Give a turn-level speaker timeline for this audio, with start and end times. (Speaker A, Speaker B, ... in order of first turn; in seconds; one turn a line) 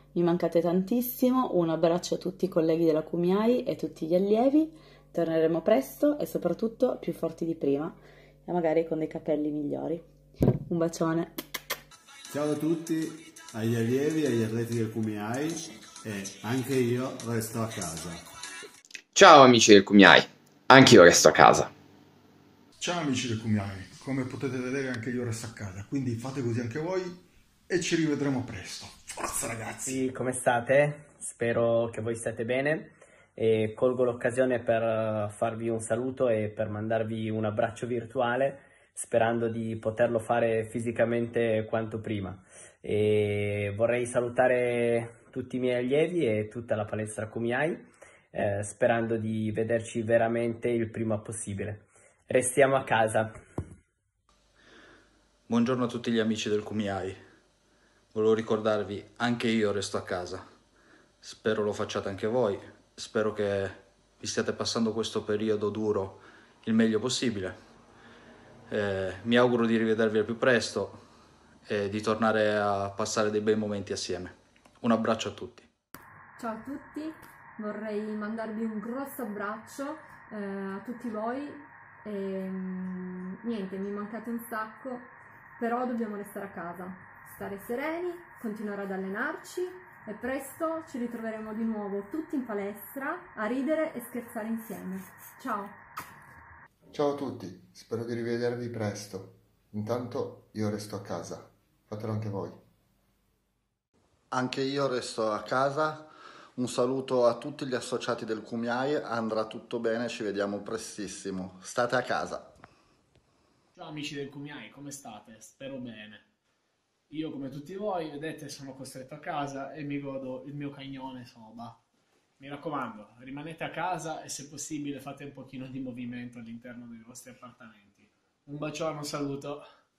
Speaker A: 0.1-7.9
Speaker A: 8.4-10.0
Speaker A: 10.7-11.3
Speaker B: 12.3-18.2
Speaker C: 19.1-21.7
Speaker D: 22.8-30.0
Speaker E: 29.8-53.3
Speaker F: 55.5-57.2
Speaker F: 58.1-60.4
Speaker F: 61.2-67.5
Speaker F: 68.7-71.0
Speaker F: 71.7-75.7
Speaker G: 76.3-95.8
Speaker H: 96.9-102.6
Speaker I: 104.3-112.5
Speaker J: 113.7-116.2
Speaker J: 117.1-121.8
Speaker J: 122.4-129.6